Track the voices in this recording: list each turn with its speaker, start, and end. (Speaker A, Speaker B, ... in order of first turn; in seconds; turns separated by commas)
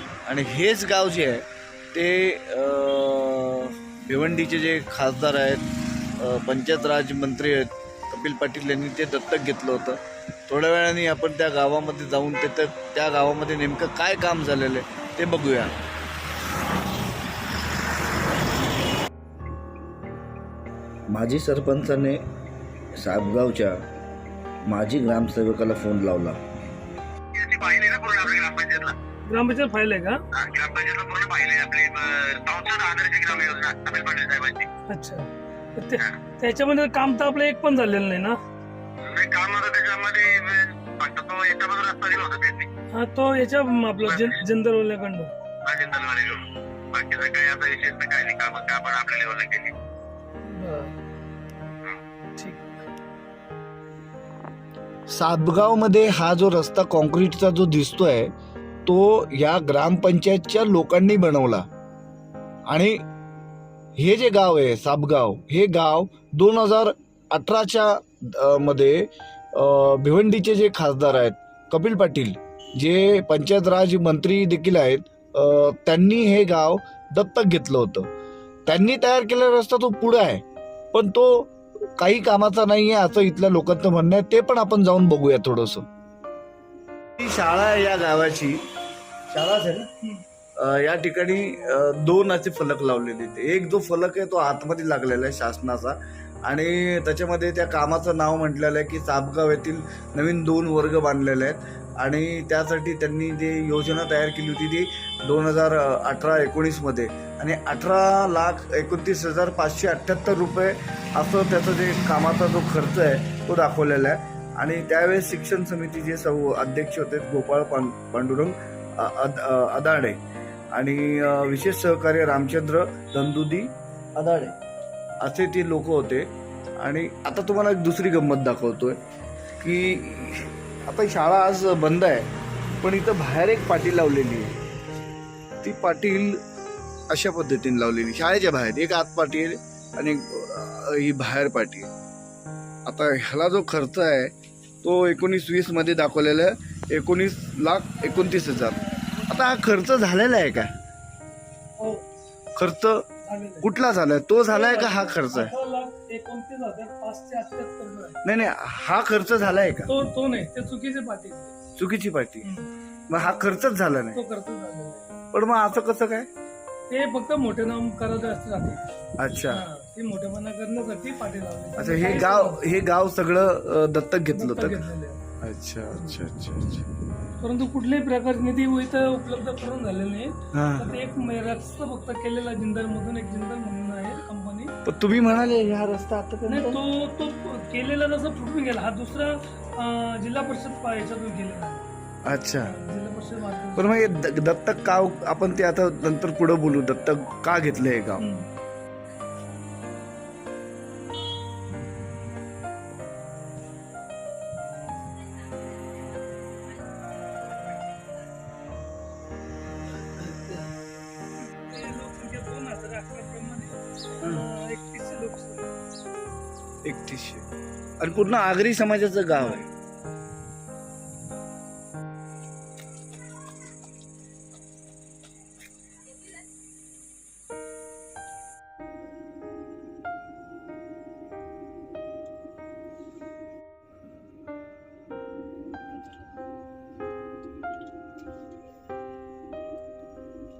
Speaker A: 0.2-5.6, Speaker A: 6.2-15.7, Speaker A: 21.1-22.2, Speaker A: 22.9-23.8, Speaker A: 24.6-26.4, Speaker B: 27.3-28.9, Speaker C: 29.2-30.2, Speaker B: 30.3-34.7, Speaker C: 34.9-38.4, Speaker B: 39.0-42.7, Speaker C: 42.9-45.3, Speaker B: 44.0-44.3, Speaker B: 45.6-46.4, Speaker B: 46.9-49.7, Speaker C: 50.5-50.9, Speaker C: 52.4-52.7, Speaker A: 55.1-58.3, Speaker A: 58.9-61.7, Speaker A: 62.7-63.0, Speaker A: 64.0-78.1, Speaker A: 78.7-80.4, Speaker A: 80.9-85.9, Speaker A: 87.2-88.7, Speaker A: 89.3-89.9, Speaker A: 90.6-120.2, Speaker A: 120.7-124.5, Speaker A: 125.2-129.0, Speaker A: 129.6-132.3, Speaker A: 132.8-134.6, Speaker A: 135.6-136.4, Speaker A: 137.1-141.9, Speaker A: 142.8-150.7, Speaker C: 151.8-152.0, Speaker A: 152.6-153.1, Speaker C: 153.2-153.7, Speaker A: 153.6-155.5, Speaker C: 154.5-158.2, Speaker A: 158.2-159.9, Speaker C: 159.9-161.5, Speaker A: 161.8-162.5, Speaker C: 162.4-162.7, Speaker A: 163.1-164.2, Speaker C: 164.1-165.1, Speaker A: 165.3-166.3, Speaker C: 166.9-168.8, Speaker A: 169.2-169.7, Speaker C: 169.5-172.8, Speaker A: 171.8-174.8, Speaker C: 174.3-175.2, Speaker A: 175.4-176.9, Speaker C: 177.4-184.7, Speaker A: 180.5-180.9, Speaker A: 184.8-186.8, Speaker C: 186.5-191.8, Speaker A: 192.2-192.7, Speaker C: 192.6-194.1, Speaker A: 193.8-198.2, Speaker C: 198.2-198.5, Speaker C: 211.4-215.7, Speaker A: 216.8-217.4, Speaker A: 218.0-219.6